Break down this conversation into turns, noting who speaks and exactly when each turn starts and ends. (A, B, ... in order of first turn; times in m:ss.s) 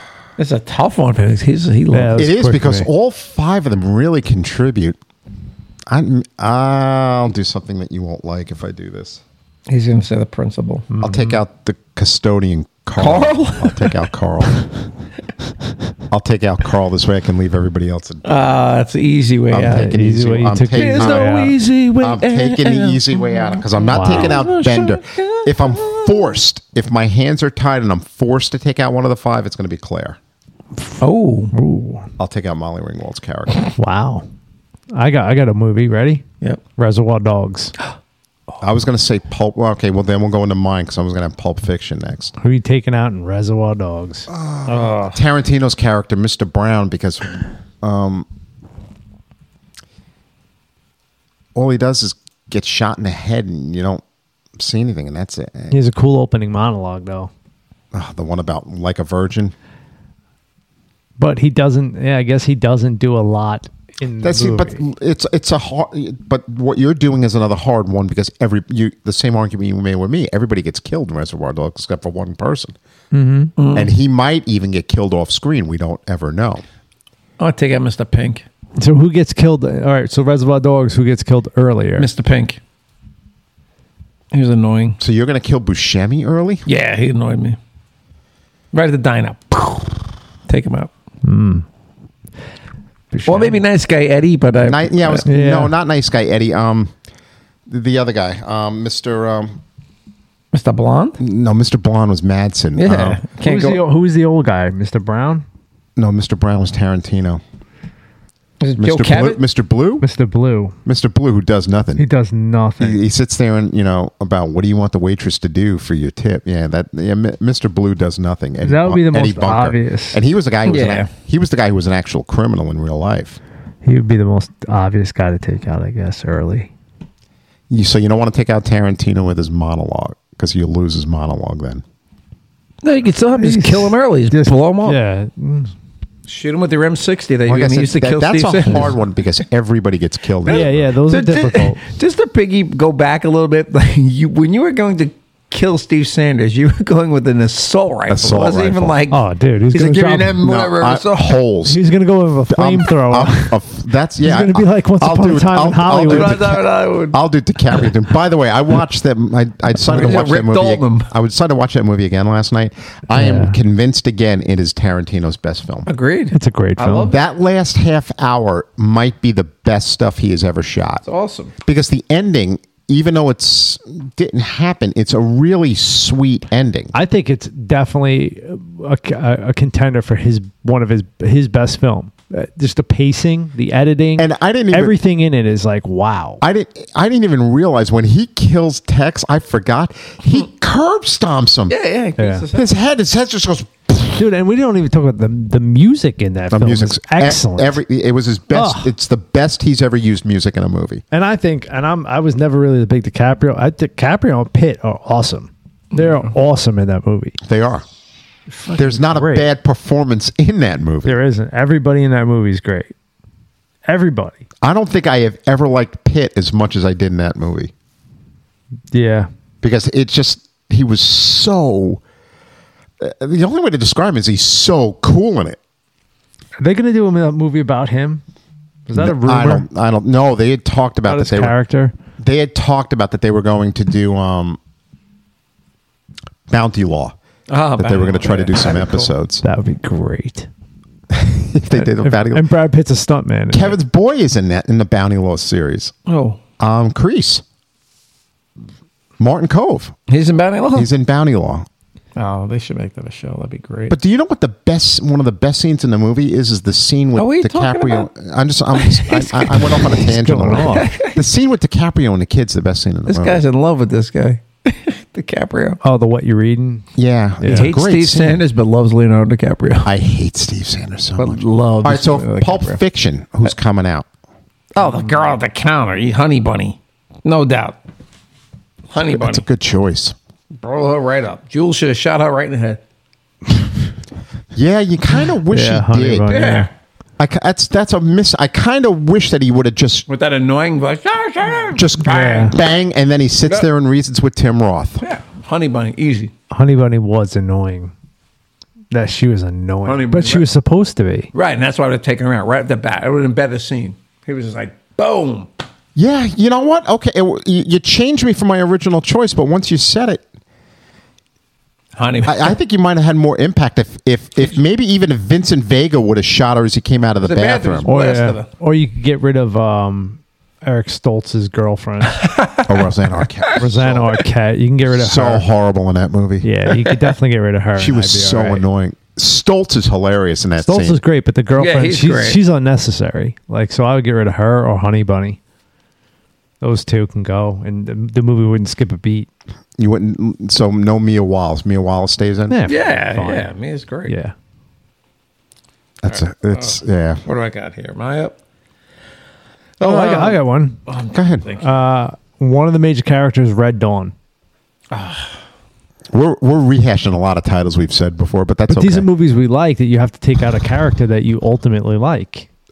0:00.4-0:02.2 A
0:01.9-0:02.9 B
0:02.2-0:05.0 C
0:05.9-0:09.2 C
0:09.7-0:10.9 A
0:10.9-0:11.4 B
0:11.0-0:14.6 C
0:13.0-0:14.0 A
0:16.1-0:18.3 C
0:18.2-0:19.9 A
0:19.5-0:21.3 C
0:19.7-0:21.6 B
0:20.7-0:26.2 A
0:22.0-0:30.2 C
0:23.9-0:24.4 B
0:31.0-0:31.5 A
0:31.5-0:32.1 B
0:32.2-0:33.6 C
0:33.7-0:34.3 B
0:34.9-0:36.2 B
0:36.8-0:37.7 B
0:38.6-0:42.3 C
0:42.4-0:44.3 B
0:44.3-0:48.3 C
0:44.6-0:45.2 A
0:51.6-0:54.0 C
0:54.6-0:55.8 C
0:55.7-0:57.3 B
0:57.9-0:59.5 C
1:01.2-1:04.8 B
1:04.2-1:12.8 C
1:13.1-1:13.5 B
1:13.6-1:13.9 A
1:13.7-1:16.6 C
1:17.4-1:18.4 A
1:18.8-1:22.1 B
1:22.0-1:22.6 A
1:24.3-1:25.0 A
1:25.0-1:26.6 C
1:26.6-1:27.6 A
1:28.7-1:30.9 A
1:31.2-1:31.6 B
1:33.1-1:33.6 B
1:33.3-1:35.3 A
1:34.6-1:36.9 C
1:35.3-1:35.7 B
1:37.7-1:39.6 C
1:40.5-1:41.2 A
1:41.2-1:43.2 C
1:42.8-1:43.8 A
1:43.4-1:45.4 B
1:46.0-1:47.4 C
1:48.6-1:49.4 A
1:48.8-1:50.0 C
1:50.0-1:50.8 B
1:50.9-1:52.0 C
1:52.0-1:53.0 B
1:52.8-2:03.4 C
1:58.6-2:00.2 B
2:00.6-2:01.1 A
2:03.8-2:06.7 B
2:07.7-2:11.8 C
2:12.8-2:15.0 A
2:13.4-2:15.7 B
2:16.3-2:19.0 A
2:17.4-2:20.8 C
2:20.4-2:29.2 A
2:20.5-2:21.8 B
2:28.1-2:29.0 C
2:29.1-2:30.4 B
2:29.7-2:31.4 A
2:30.4-2:31.8 C
2:31.6-2:33.6 B
2:32.5-2:45.9 C
2:34.2-2:36.4 B
2:36.0-2:37.2 A
2:39.8-2:41.1 A
2:43.1-2:43.6 B
2:45.9-2:47.2 A
2:46.3-2:47.1 B
2:47.1-2:51.0 C
2:51.0-2:51.5 A
2:51.6-2:56.9 C
2:56.9-3:06.4 B
3:04.2-3:05.0 C
3:06.4-3:11.8 C
3:11.7-3:12.7 A
3:12.2-3:12.4 B
3:12.5-3:14.2 C
3:14.1-3:17.8 B
3:16.5-3:21.0 C
3:18.5-3:18.9 B
3:21.1-3:27.4 B
3:27.4-3:27.8 C
3:28.5-3:29.5 B
3:28.7-3:31.2 C
3:31.0-3:32.9 B
3:33.9-3:34.4 B
3:34.6-3:37.7 C
3:38.9-3:39.3 B
3:39.6-3:42.0 C
3:43.0-3:45.6 C
3:46.6-3:48.2 B
3:48.9-3:49.6 B
3:48.9-3:51.6 C
3:51.0-3:51.9 B
3:52.2-3:54.6 C
3:56.5-3:57.2 C
3:57.5-3:59.1 A
3:57.8-3:59.4 C
3:59.4-4:00.5 B
4:01.1-4:02.5 C
4:01.7-4:03.8 B
4:03.5-4:05.9 C
4:06.1-4:06.4 A
4:06.6-4:07.4 C
4:09.2-4:10.0 C
4:10.1-4:10.9 A
4:10.7-4:11.6 C
4:12.2-4:14.0 A
4:13.9-4:23.4 C
4:17.2-4:18.1 A
4:18.7-4:20.0 A
4:20.0-4:20.9 B
4:20.6-4:21.2 A
4:23.1-4:25.8 A
4:25.8-4:26.9 B
4:27.0-4:28.4 C
4:27.4-4:27.7 B
4:27.5-4:29.9 A
4:29.8-4:34.0 C
4:31.2-4:32.8 A
4:34.7-4:37.8 A
4:38.9-4:39.4 A
4:39.1-4:40.1 C
4:40.6-4:42.8 A
4:44.5-4:46.3 C
4:45.5-4:46.7 B
4:46.3-4:46.7 A
4:47.2-4:50.1 C
4:50.1-4:52.6 A
4:51.7-4:55.0 C
4:52.0-4:52.6 B
4:53.4-4:53.7 A
4:55.0-4:56.3 A
4:56.5-4:57.9 B
4:58.9-5:01.3 B
4:59.9-5:00.5 A
5:01.3-5:05.5 A
5:06.0-5:10.2 C
5:12.0-5:12.6 A
5:12.2-5:17.9 C
5:17.2-5:18.5 A
5:17.9-5:22.2 B
5:22.1-5:22.7 A
5:22.6-5:24.1 C
5:23.6-5:25.4 B
5:24.9-5:26.5 C
5:26.4-5:28.6 B
5:27.8-5:31.0 C
5:30.6-5:35.4 B
5:31.6-5:32.4 A
5:36.6-5:39.3 B
5:39.8-5:42.7 C
5:42.5-5:43.5 B
5:42.6-5:44.1 A
5:44.0-5:44.3 B
5:46.0-5:47.2 C
5:46.1-5:48.4 A
5:49.8-5:51.7 A
5:49.8-5:50.8 B
5:51.1-5:51.4 C
5:51.6-5:54.1 B
5:54.9-5:55.4 A
5:56.1-5:59.1 C
5:58.7-6:02.5 B